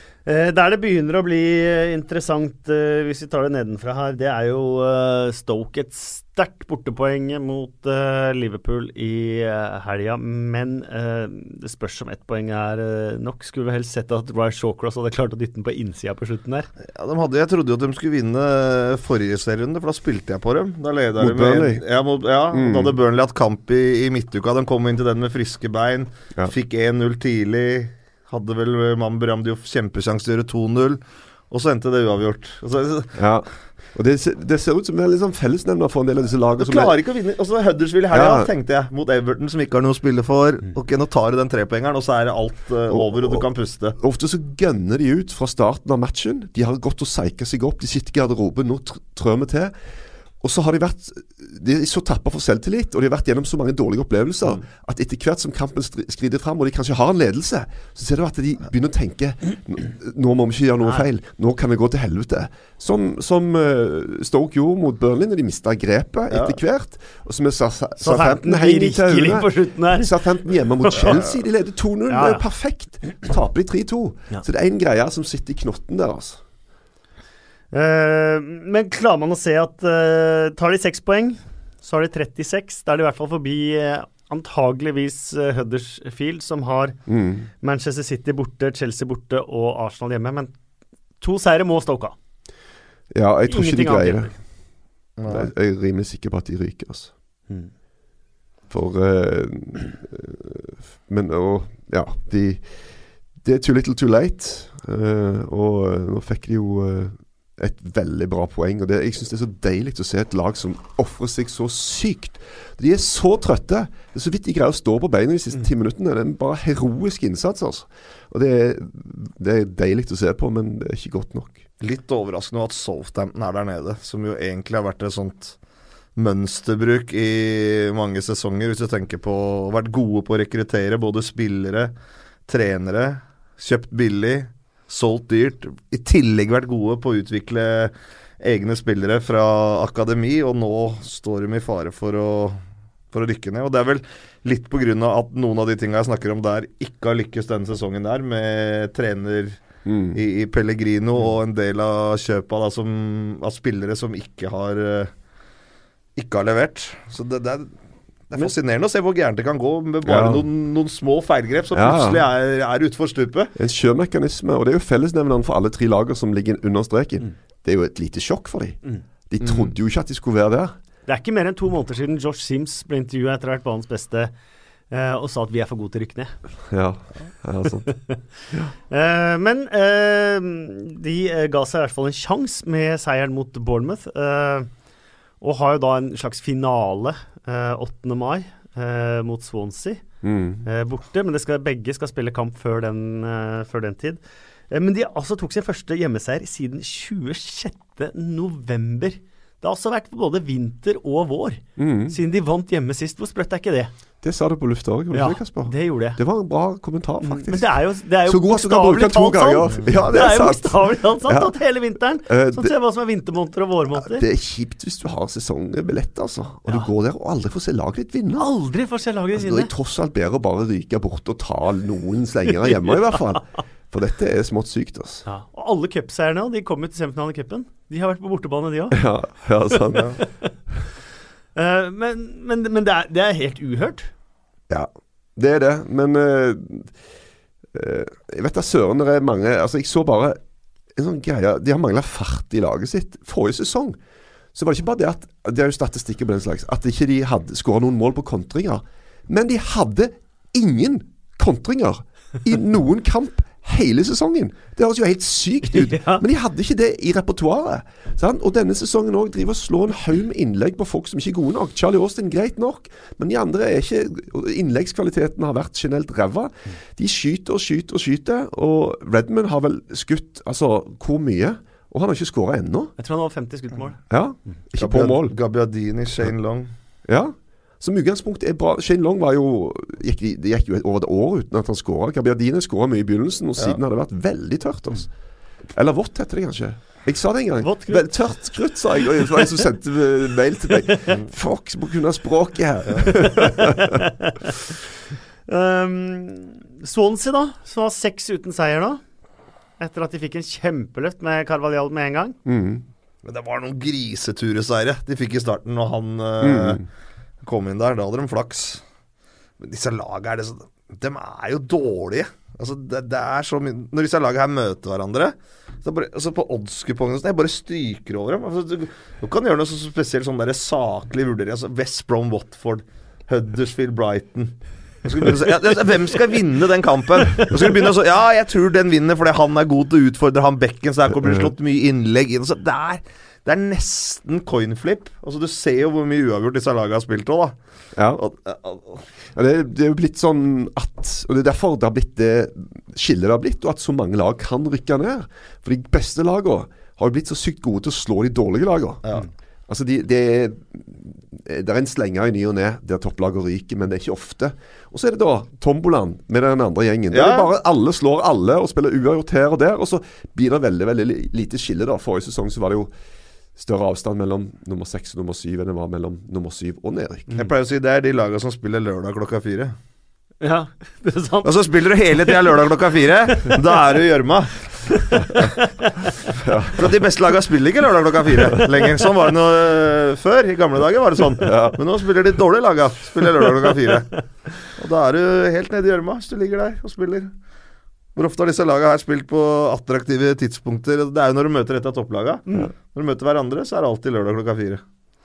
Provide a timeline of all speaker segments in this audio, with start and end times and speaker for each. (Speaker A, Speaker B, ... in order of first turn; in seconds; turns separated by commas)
Speaker A: 0.2-16.7, Speaker B: 16.9-33.2, Speaker C: 21.2-21.8, Speaker C: 22.5-23.0, Speaker C: 33.1-37.0, Speaker B: 36.6-44.0, Speaker C: 38.1-38.5, Speaker C: 42.9-43.5, Speaker C: 44.0-49.7, Speaker C: 50.4-76.4, Speaker B: 66.3-66.6, Speaker A: 68.0-70.2, Speaker A: 70.8-71.3, Speaker A: 72.1-72.4, Speaker A: 77.7-87.0, Speaker C: 87.1-87.5, Speaker A: 87.6-90.5, Speaker A: 91.2-92.1, Speaker C: 93.1-94.3, Speaker A: 93.5-94.3, Speaker B: 95.2-95.5, Speaker C: 95.3-97.1, Speaker C: 98.7-102.7, Speaker C: 103.4-121.6, Speaker B: 121.8-125.6, Speaker B: 126.2-131.9, Speaker B: 132.5-142.6, Speaker B: 143.1-149.6, Speaker C: 149.9-150.2, Speaker B: 150.1-155.1, Speaker B: 156.2-157.7, Speaker B: 158.3-163.5, Speaker C: 160.1-160.4, Speaker C: 161.7-162.2, Speaker C: 163.6-170.8, Speaker A: 171.1-174.3, Speaker A: 174.9-176.4, Speaker C: 176.7-177.9, Speaker A: 177.9-178.2, Speaker A: 178.9-184.7, Speaker A: 185.4-190.0, Speaker C: 190.2-190.7, Speaker A: 190.6-203.9, Speaker C: 201.8-202.2, Speaker C: 204.2-207.7, Speaker A: 205.1-206.2, Speaker A: 207.2-214.2, Speaker C: 208.2-211.5, Speaker C: 212.2-212.7, Speaker C: 213.9-218.5, Speaker A: 218.4-219.7, Speaker C: 219.3-225.2, Speaker A: 225.2-229.0, Speaker C: 228.9-230.2, Speaker A: 231.5-234.1, Speaker C: 234.7-236.9, Speaker C: 237.7-240.4, Speaker C: 240.9-244.0, Speaker C: 244.5-272.9, Speaker A: 255.6-256.2, Speaker A: 273.0-274.0, Speaker C: 274.1-275.3, Speaker B: 274.8-276.7, Speaker C: 277.1-285.1, Speaker C: 285.7-293.8, Speaker A: 287.6-288.5, Speaker A: 290.9-291.1, Speaker A: 293.1-294.3, Speaker A: 295.5-299.0, Speaker A: 299.8-302.4, Speaker C: 302.4-302.8, Speaker B: 303.2-306.8, Speaker C: 306.4-306.8, Speaker B: 307.4-308.8, Speaker B: 309.6-337.6, Speaker C: 331.1-331.5, Speaker C: 338.0-338.2, Speaker B: 338.1-339.0, Speaker C: 339.3-349.0, Speaker C: 349.7-362.9, Speaker B: 357.1-357.5, Speaker C: 363.6-367.5, Speaker B: 367.3-369.8, Speaker A: 370.4-371.6, Speaker B: 371.4-375.5, Speaker A: 375.3-375.6, Speaker C: 376.4-376.8, Speaker B: 376.7-387.3, Speaker C: 381.4-381.8, Speaker B: 388.2-394.8